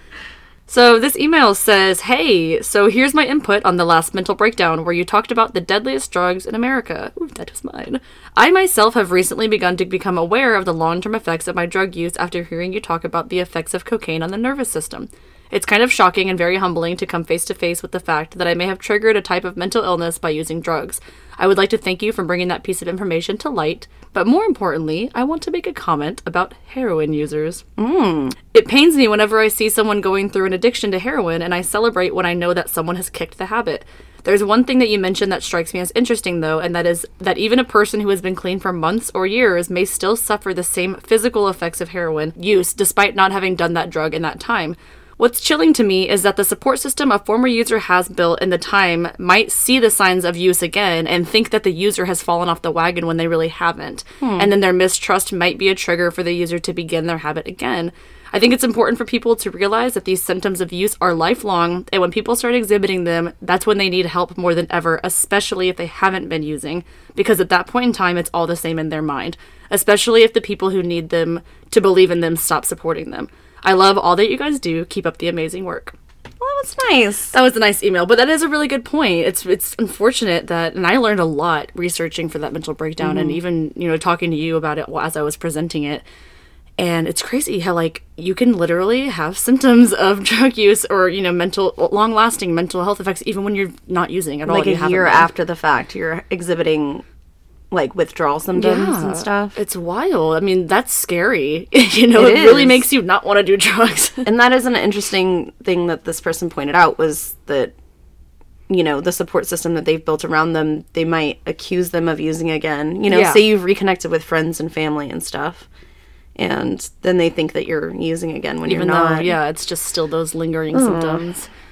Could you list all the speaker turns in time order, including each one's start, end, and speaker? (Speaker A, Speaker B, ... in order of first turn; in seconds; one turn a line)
Speaker A: 0.7-27.6
Speaker B: 27.8-28.4
Speaker A: 28.5-75.9
Speaker B: 54.2-54.5
Speaker B: 76.4-77.3
Speaker A: 77.3-86.0
Speaker B: 83.0-83.4
Speaker A: 86.8-95.3
Speaker B: 94.5-97.0
Speaker B: 97.7-99.6
Speaker A: 98.5-104.3
Speaker B: 102.2-102.8
Speaker B: 104.2-107.7
Speaker B: 108.7-115.7
Speaker A: 113.1-113.4
Speaker B: 116.4-119.3
Speaker A: 118.7-121.5
Speaker B: 120.7-121.2